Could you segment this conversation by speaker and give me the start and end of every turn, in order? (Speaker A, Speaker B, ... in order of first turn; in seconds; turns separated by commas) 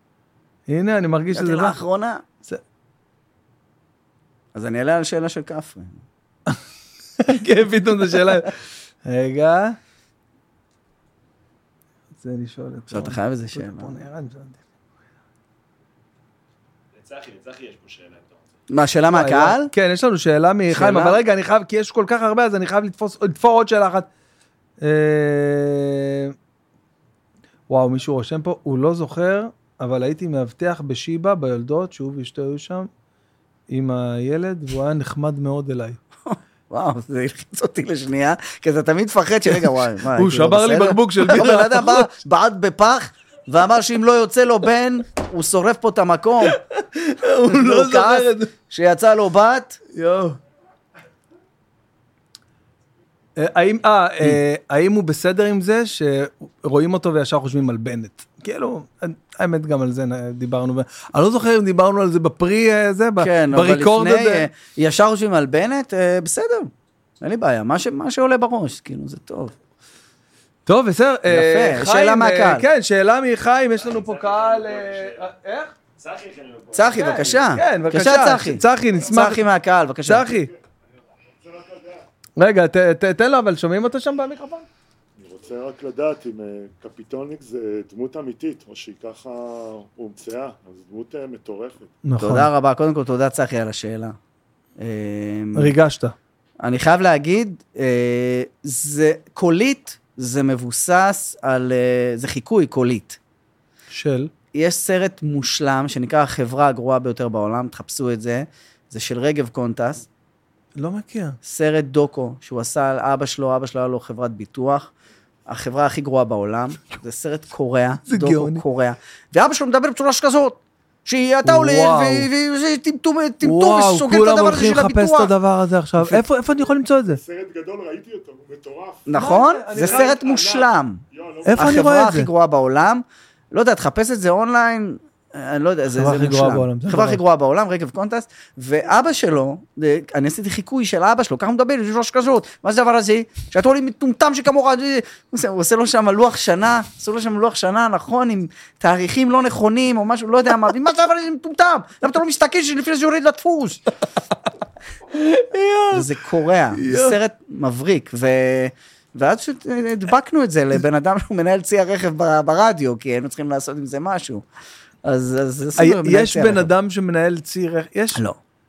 Speaker A: 0.7-1.8, Speaker B: 1.3-2.2, Speaker B: 4.5-6.0, Speaker A: 7.2-9.8, Speaker A: 12.2-14.6, Speaker B: 12.9-13.9, Speaker C: 16.9-18.4, Speaker B: 18.7-19.7, Speaker A: 19.1-24.1, Speaker B: 20.7-21.2, Speaker A: 24.8-26.3, Speaker A: 27.7-32.9, Speaker A: 33.7-36.0, Speaker B: 36.2-46.6, Speaker A: 40.1-42.1, Speaker A: 46.5-48.5, Speaker B: 47.5-49.8, Speaker A: 49.9-50.4, Speaker A: 53.4-64.5, Speaker B: 63.2-69.5, Speaker A: 70.7-75.7, Speaker B: 71.3-72.7, Speaker C: 73.8-75.3, Speaker C: 76.0-77.5, Speaker B: 76.7-80.3, Speaker A: 76.9-79.4, Speaker A: 80.1-80.5, Speaker D: 81.4-82.0, Speaker A: 82.4-84.7, Speaker D: 85.2-91.9, Speaker A: 92.0-92.5, Speaker B: 92.2-94.2, Speaker B: 94.8-95.8, Speaker A: 95.6-96.2, Speaker B: 96.6-103.2, Speaker A: 103.9-104.3, Speaker B: 104.5-110.1, Speaker A: 110.8-111.4, Speaker B: 111.4-114.9, Speaker B: 115.5-125.3, Speaker A: 118.1-118.6, Speaker A: 121.4-122.3, Speaker A: 123.4-127.2, Speaker D: 127.1-131.7, Speaker B: 129.1-131.0, Speaker A: 129.2-130.2, Speaker A: 131.4-132.3, Speaker B: 131.5-153.8, Speaker A: 136.0-137.2, Speaker A: 155.1-156.1, Speaker B: 155.9-164.4, Speaker A: 156.7-157.2, Speaker B: 165.1-166.7, Speaker A: 165.8-168.2